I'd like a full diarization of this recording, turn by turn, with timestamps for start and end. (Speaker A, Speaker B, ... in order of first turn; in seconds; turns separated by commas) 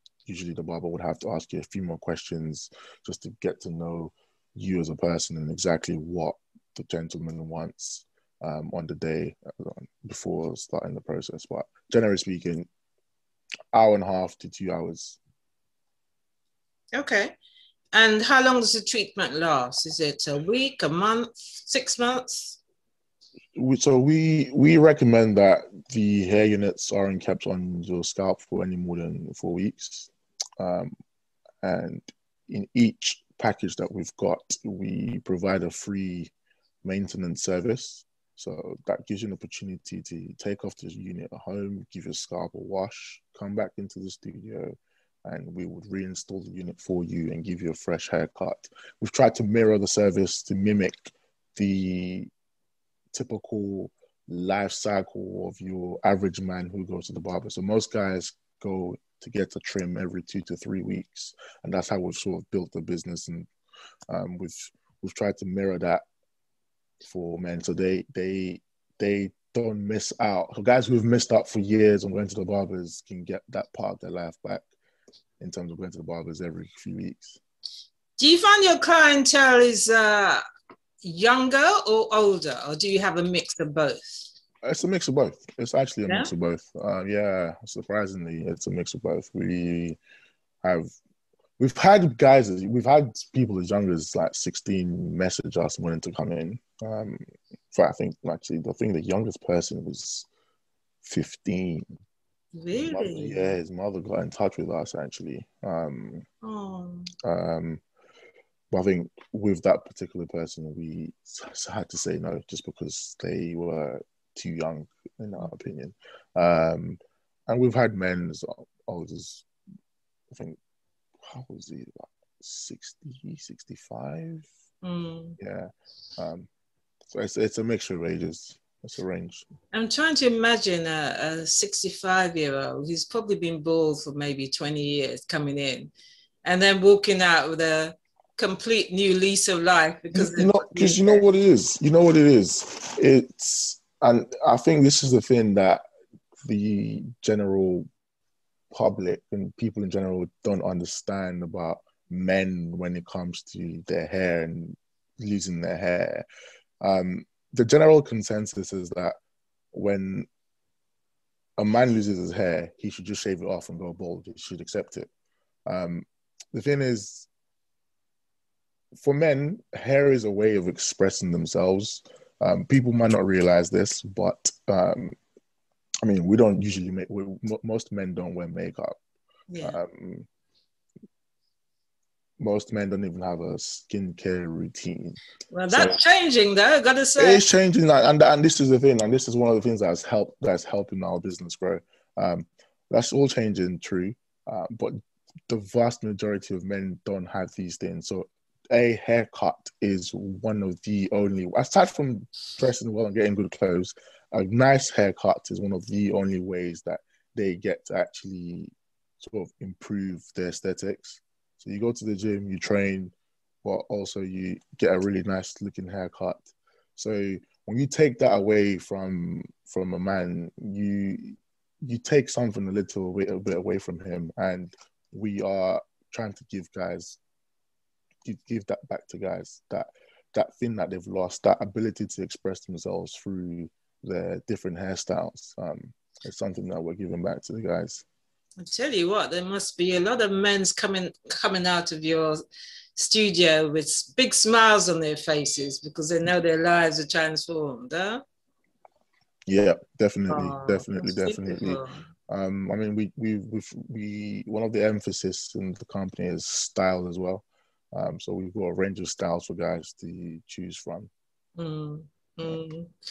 Speaker A: 0.2-12.7, Speaker A: 13.7-15.2, Speaker B: 16.9-17.3, Speaker B: 17.9-22.6, Speaker A: 23.6-30.9, Speaker A: 31.6-36.3, Speaker A: 36.8-52.3, Speaker A: 53.1-63.5, Speaker A: 64.1-66.0, Speaker A: 67.0-74.7, Speaker A: 75.4-77.4, Speaker B: 78.2-80.4, Speaker B: 81.0-84.3, Speaker A: 84.6-90.0, Speaker A: 90.6-90.9, Speaker A: 91.6-100.3, Speaker A: 101.0-101.9, Speaker B: 102.5-103.5, Speaker A: 102.7-106.2, Speaker B: 106.4-107.1, Speaker A: 107.2-107.8, Speaker A: 108.7-119.5, Speaker A: 120.3-120.6, Speaker A: 121.2-124.5, Speaker B: 124.8-125.4, Speaker A: 125.4-126.5, Speaker A: 127.1-129.4, Speaker B: 129.7-135.9, Speaker B: 136.4-141.2, Speaker A: 140.1-145.8, Speaker A: 146.4-147.9, Speaker A: 148.7-156.2, Speaker A: 156.8-159.2, Speaker A: 159.7-160.3, Speaker A: 161.6-165.1, Speaker A: 165.7-167.3, Speaker A: 168.9-175.2, Speaker A: 176.0-179.0, Speaker B: 179.5-179.8, Speaker A: 179.6-180.3, Speaker A: 182.4-185.2, Speaker B: 185.5-187.4, Speaker A: 185.7-186.0, Speaker A: 187.2-227.2, Speaker A: 228.2-238.0, Speaker B: 238.6-242.4, Speaker B: 242.9-248.2, Speaker A: 249.5-261.1, Speaker B: 250.3-252.0, Speaker B: 261.6-262.9